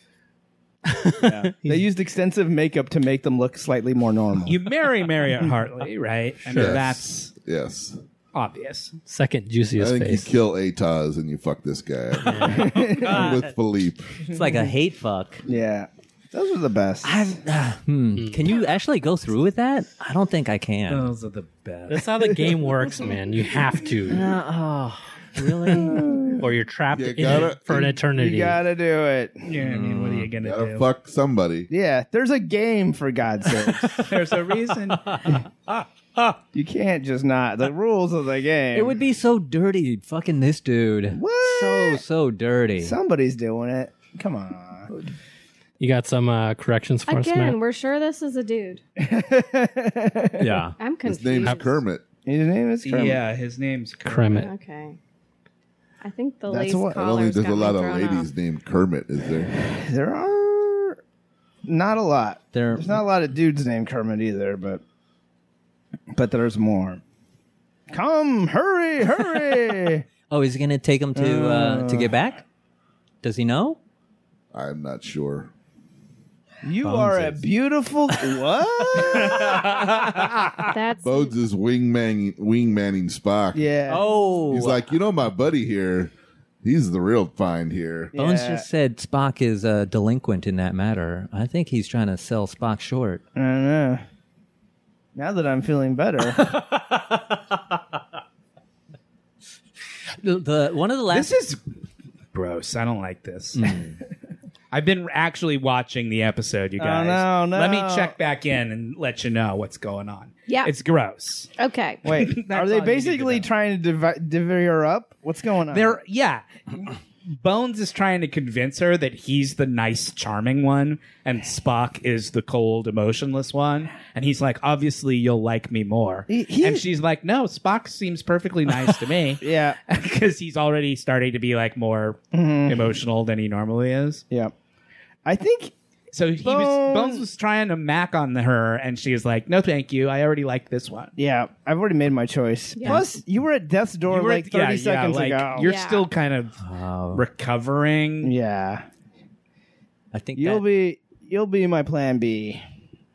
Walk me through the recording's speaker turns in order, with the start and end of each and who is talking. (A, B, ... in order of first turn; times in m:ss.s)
0:00.9-0:01.9 A
0:01.2-0:04.6 B
0:04.5-0:07.3 C
0:06.5-0:08.0 D
0:08.3-0:09.0 C
0:09.1-0:10.3 A
0:09.8-0:14.1 D
0:12.2-0:12.8 A
0:12.5-0:13.3 B
0:14.3-0:15.4 E
0:15.5-0:17.4 B
0:17.0-0:21.1 E
0:18.2-0:18.5 A
0:20.9-0:22.1 C
0:21.9-0:24.3 A
0:24.1-0:26.1 E
0:25.7-0:28.6 A
0:25.7-0:26.5 B
0:26.9-0:28.0 D
0:28.1-0:29.5 B
0:29.4-0:30.9 C
0:29.6-0:30.3 E
0:30.4-0:31.7 D
0:31.7-0:34.1 B
0:33.7-0:34.1 E
0:34.0-0:35.2 C
0:35.1-0:36.3 E
0:36.5-0:39.0 B
0:38.7-0:43.0 E
0:41.1-0:42.0 B
0:42.8-0:44.9 B
0:45.8-0:47.6 A
0:47.1-0:48.8 F
0:49.0-0:50.6 B
0:50.4-0:50.8 E
0:50.8-0:51.8 F
0:51.0-0:52.0 D
0:52.2-0:53.2 B
0:52.8-0:54.5 C
0:54.1-0:54.5 A
0:54.4-0:55.0 F
0:56.0-0:58.3 F
0:56.5-0:57.1 B
0:57.0-0:59.5 D
0:59.5-1:01.0 B
1:01.6-1:04.8 B
1:02.5-1:03.1 E
1:06.1-1:07.0 B
1:07.9-1:10.0 B
1:10.3-1:12.4 E
1:11.2-1:12.2 B
1:13.2-1:13.8 E
1:14.5-1:15.5 D
1:16.6-1:19.9 B
1:16.8-1:17.4 E
1:19.3-1:20.6 C
1:20.7-1:21.4 F
1:21.0-1:23.6 D
1:23.6-1:24.4 B
1:23.9-1:24.9 E
1:24.5-1:26.1 D
1:26.6-1:28.1 D
1:28.1-1:28.7 B
1:28.2-1:33.2 E
1:33.4-1:34.0 B
1:35.2-1:36.4 B
1:36.4-1:37.4 E
1:40.2-1:41.4 E
1:41.1-1:41.6 C
1:42.3-1:43.8 C
1:43.6-1:44.0 E
1:44.7-1:51.5 C
1:46.8-1:48.1 B
1:51.6-1:52.0 F
1:52.0-1:56.0 B
1:52.1-1:53.5 C
1:55.7-2:14.2 C
2:06.3-2:06.9 B
2:09.4-2:09.8 B
2:12.3-2:12.9 B
2:15.2-2:15.7 B
2:16.1-2:21.1 C
2:16.4-2:17.2 B
2:21.2-2:25.7 B
2:22.8-2:23.0 F
2:24.1-2:26.6 C
2:25.6-2:26.1 F
2:26.6-2:27.2 E
2:27.1-2:28.3 C
2:28.2-2:28.8 B
2:30.1-2:30.6 E
2:30.4-2:32.6 B